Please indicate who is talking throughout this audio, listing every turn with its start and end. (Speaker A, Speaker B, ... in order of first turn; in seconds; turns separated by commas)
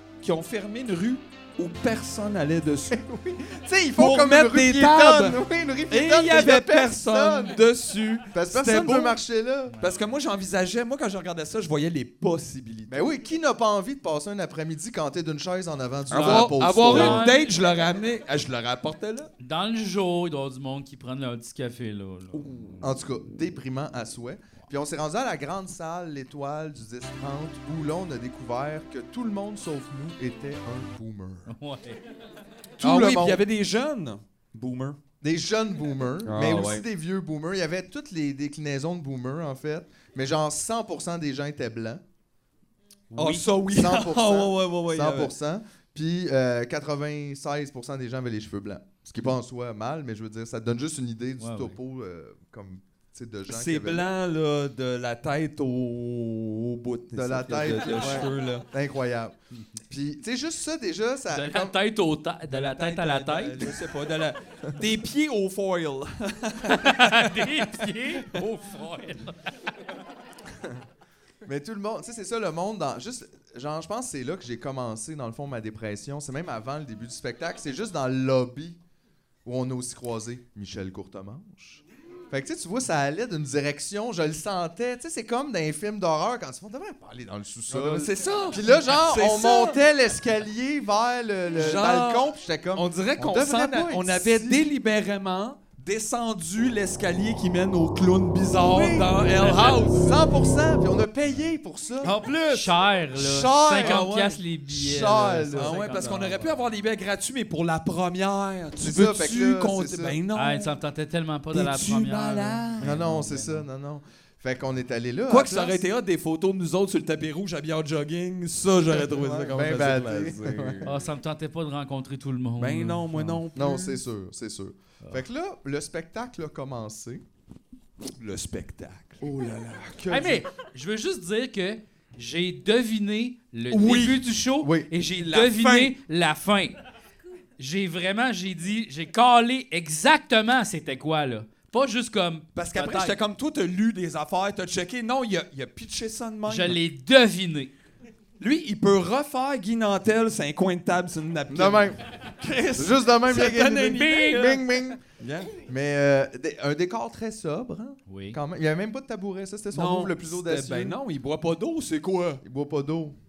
Speaker A: 0.2-3.0, Speaker B: 2.9-7.6, Speaker A: 4.0-9.2, Speaker B: 8.3-9.7, Speaker C: 9.7-10.1, Speaker A: 9.8-13.0, Speaker B: 12.9-17.2, Speaker C: 16.1-17.5, Speaker A: 16.1-19.3, Speaker C: 19.4-22.8, Speaker A: 22.3-22.7, Speaker B: 22.8-31.5, Speaker C: 31.5-32.0, Speaker B: 32.8-33.4, Speaker A: 32.8-35.0, Speaker B: 35.2-42.0, Speaker A: 36.2-36.8, Speaker A: 43.1-45.3, Speaker C: 43.1-43.4, Speaker B: 43.6-54.1, Speaker C: 51.4-51.8, Speaker A: 53.5-58.6, Speaker B: 57.1-59.4, Speaker B: 59.9-61.8, Speaker C: 61.3-63.8, Speaker A: 62.5-68.2, Speaker C: 66.7-69.4, Speaker B: 71.5-78.8, Speaker B: 79.5-94.7, Speaker A: 87.7-89.8, Speaker A: 91.5-100.2, Speaker B: 98.5-102.2, Speaker A: 102.0-104.3, Speaker C: 102.5-106.5, Speaker B: 103.7-105.7, Speaker A: 105.5-110.8, Speaker B: 108.8-110.2, Speaker C: 110.3-113.7, Speaker A: 111.5-112.9, Speaker B: 112.8-115.9, Speaker A: 115.3-121.0, Speaker B: 119.1-121.0, Speaker C: 120.8-123.4, Speaker A: 122.6-124.0, Speaker B: 123.5-127.2, Speaker A: 128.1-129.2, Speaker B: 129.2-130.4, Speaker C: 130.1-136.7, Speaker A: 133.7-134.3, Speaker B: 134.6-134.9, Speaker A: 135.1-135.9, Speaker C: 137.6-143.2, Speaker A: 142.6-146.8, Speaker C: 146.4-147.7, Speaker A: 148.4-155.5, Speaker B: 151.5-152.0, Speaker B: 152.7-155.0, Speaker B: 155.6-161.0, Speaker C: 158.1-158.4, Speaker A: 159.7-162.4, Speaker B: 162.4-163.2